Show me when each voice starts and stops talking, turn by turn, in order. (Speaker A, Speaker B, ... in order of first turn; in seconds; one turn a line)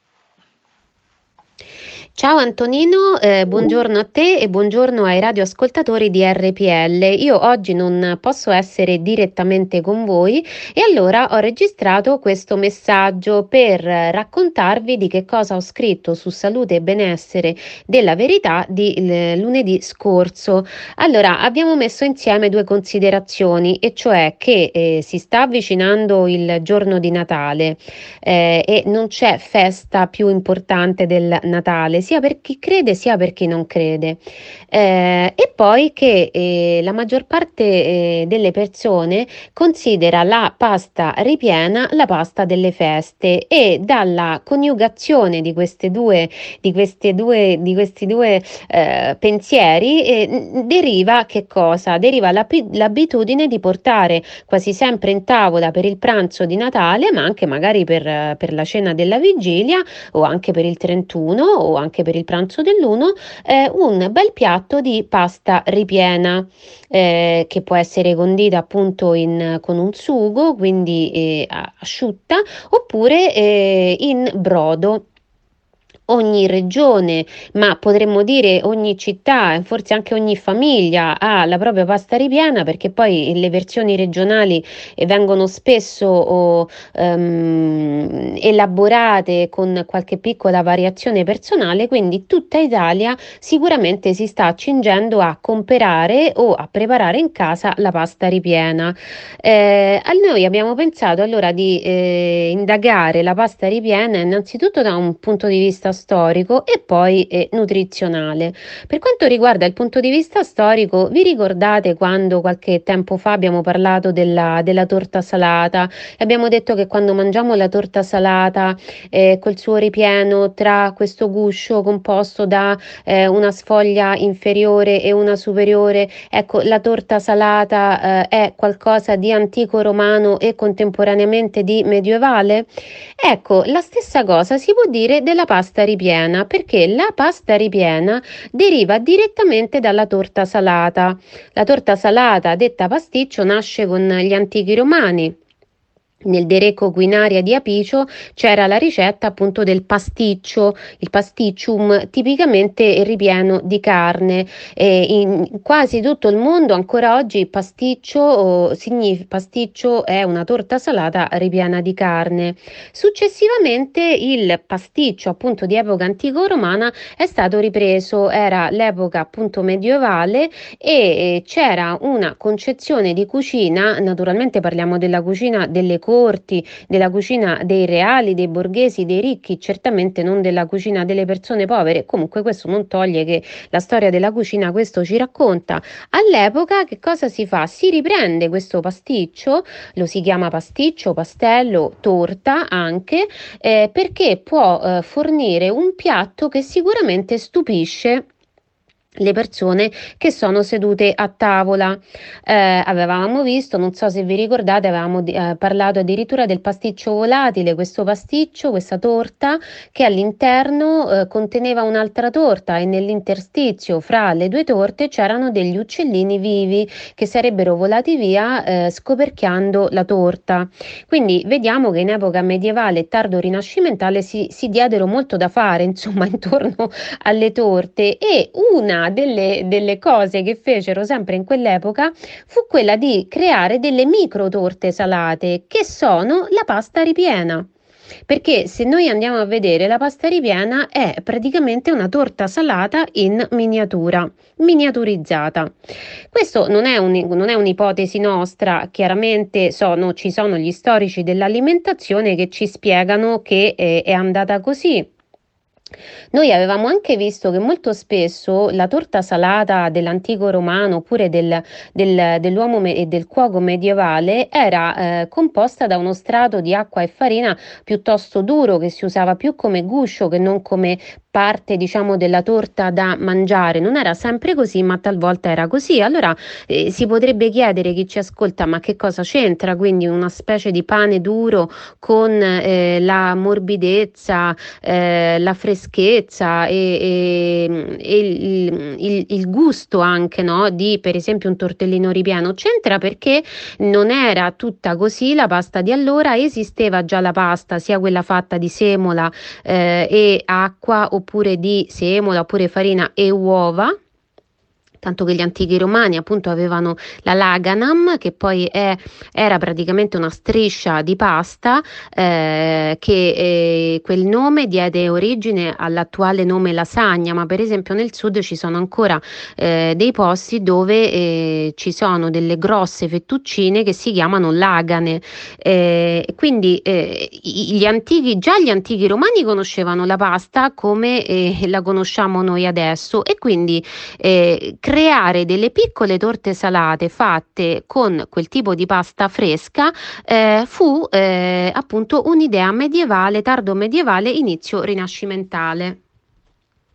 Speaker A: 2.1-75.0
Speaker A: 76.1-145.3
Speaker A: 146.2-198.2
Speaker A: 199.2-237.7
Speaker A: 238.3-245.8
Speaker A: 246.3-255.1
Speaker A: 256.3-304.0
Speaker A: 305.0-346.0